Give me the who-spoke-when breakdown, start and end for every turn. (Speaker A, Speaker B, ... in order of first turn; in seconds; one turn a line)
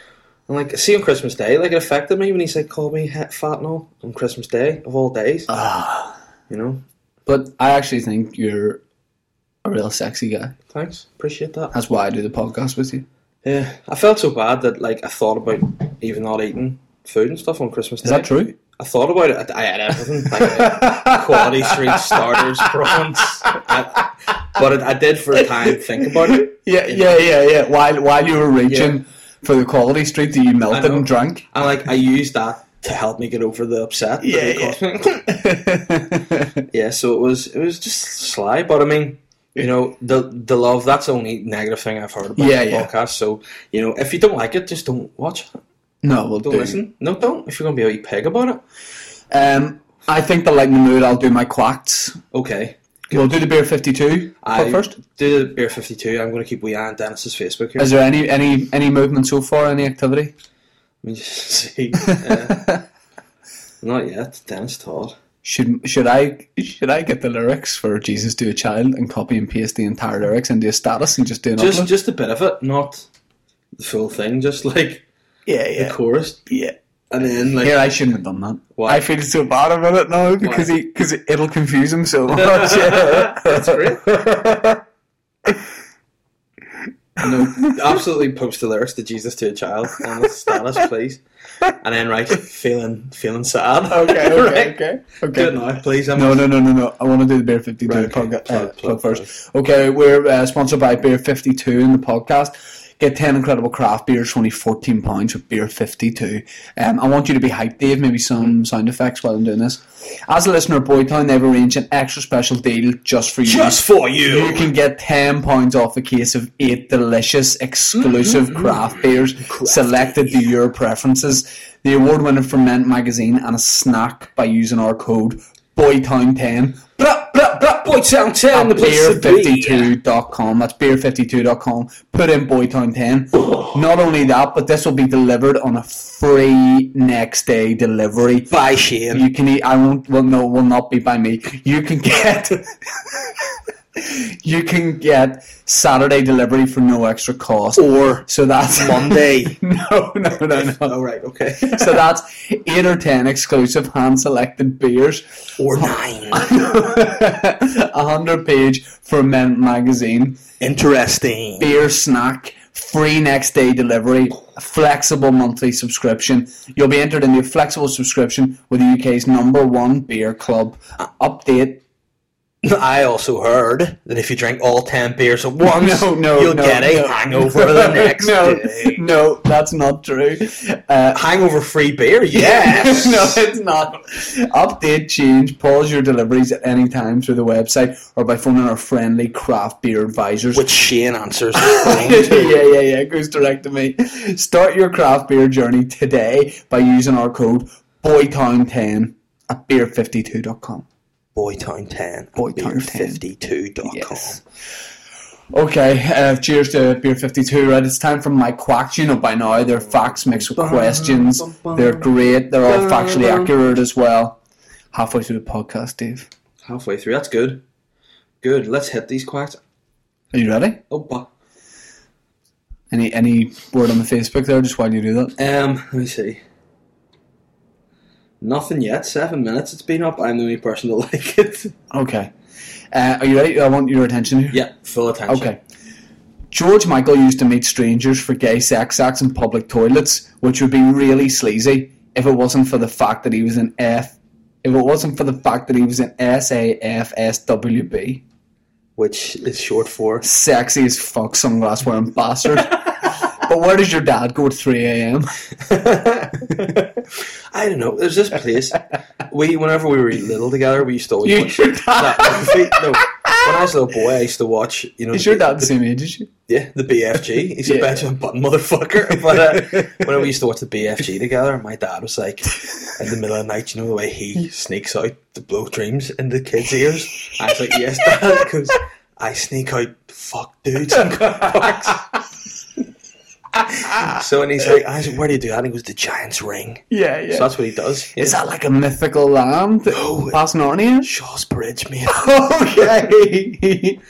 Speaker A: 0.5-5.5
Speaker B: 5.5-6.2
Speaker A: 6.5-6.8
Speaker B: 7.2-8.8
Speaker B: 9.6-10.5
Speaker A: 10.7-11.7
Speaker B: 11.7-13.1
Speaker A: 13.4-27.2
Speaker B: 18.0-18.5
Speaker B: 20.3-23.7
Speaker B: 25.4-31.4
Speaker A: 28.6-29.0
Speaker A: 30.7-35.3
Speaker B: 34.2-36.5
Speaker A: 36.7-45.6
Speaker B: 42.4-42.9
Speaker B: 46.0-46.8
Speaker A: 46.4-48.6
Speaker B: 49.3-52.2
Speaker A: 52.3-53.4
Speaker B: 53.1-55.0
Speaker A: 54.4-57.9
Speaker B: 57.8-60.3
Speaker A: 61.0-62.7
Speaker A: 63.8-65.2
Speaker B: 65.4-71.9
Speaker A: 71.5-73.1
Speaker A: 73.8-75.0
Speaker B: 75.5-76.8
Speaker A: 75.7-76.5
Speaker A: 77.1-77.8
Speaker B: 77.6-84.8
Speaker A: 78.7-79.0
Speaker A: 80.4-80.7
Speaker A: 82.3-84.3
Speaker B: 87.2-87.8
Speaker A: 87.2-91.2
Speaker A: 91.7-96.5
Speaker B: 93.9-95.6
Speaker B: 96.1-126.9
Speaker A: 97.8-99.3
Speaker A: 113.4-114.7
Speaker A: 117.9-120.5
Speaker A: 127.0-129.9
Speaker B: 128.5-138.5
Speaker A: 138.5-139.3
Speaker B: 139.1-142.8
Speaker B: 144.0-150.9
Speaker A: 147.8-149.6
Speaker A: 150.3-152.0
Speaker B: 151.6-160.4
Speaker A: 155.6-156.9
Speaker A: 160.6-161.8
Speaker B: 161.6-171.8
Speaker A: 172.6-179.0
Speaker B: 175.6-181.2
Speaker A: 181.1-183.4
Speaker B: 182.3-190.7
Speaker A: 190.5-192.6
Speaker B: 191.5-200.8
Speaker A: 201.3-204.4
Speaker B: 202.3-203.2
Speaker B: 203.8-204.4
Speaker B: 205.5-214.4
Speaker A: 209.6-213.5
Speaker B: 214.9-216.3
Speaker A: 216.6-217.6
Speaker A: 218.4-219.6
Speaker B: 220.3-220.8
Speaker A: 220.9-221.3
Speaker B: 222.9-225.3
Speaker A: 225.4-226.4
Speaker A: 228.4-231.7
Speaker B: 231.9-232.3
Speaker B: 232.9-234.6
Speaker A: 234.5-235.5
Speaker B: 235.3-235.6
Speaker B: 236.5-248.2
Speaker A: 248.9-250.2
Speaker B: 250.2-255.3
Speaker A: 255.6-256.9
Speaker A: 257.5-265.7
Speaker B: 261.2-263.4
Speaker B: 265.1-266.3
Speaker A: 266.5-282.1
Speaker B: 267.6-268.1
Speaker B: 269.3-270.0
Speaker B: 281.2-281.7
Speaker B: 283.6-284.2
Speaker A: 283.9-288.4
Speaker B: 286.9-287.5
Speaker B: 288.1-291.1
Speaker A: 289.9-290.4
Speaker A: 291.0-293.0
Speaker B: 292.1-294.0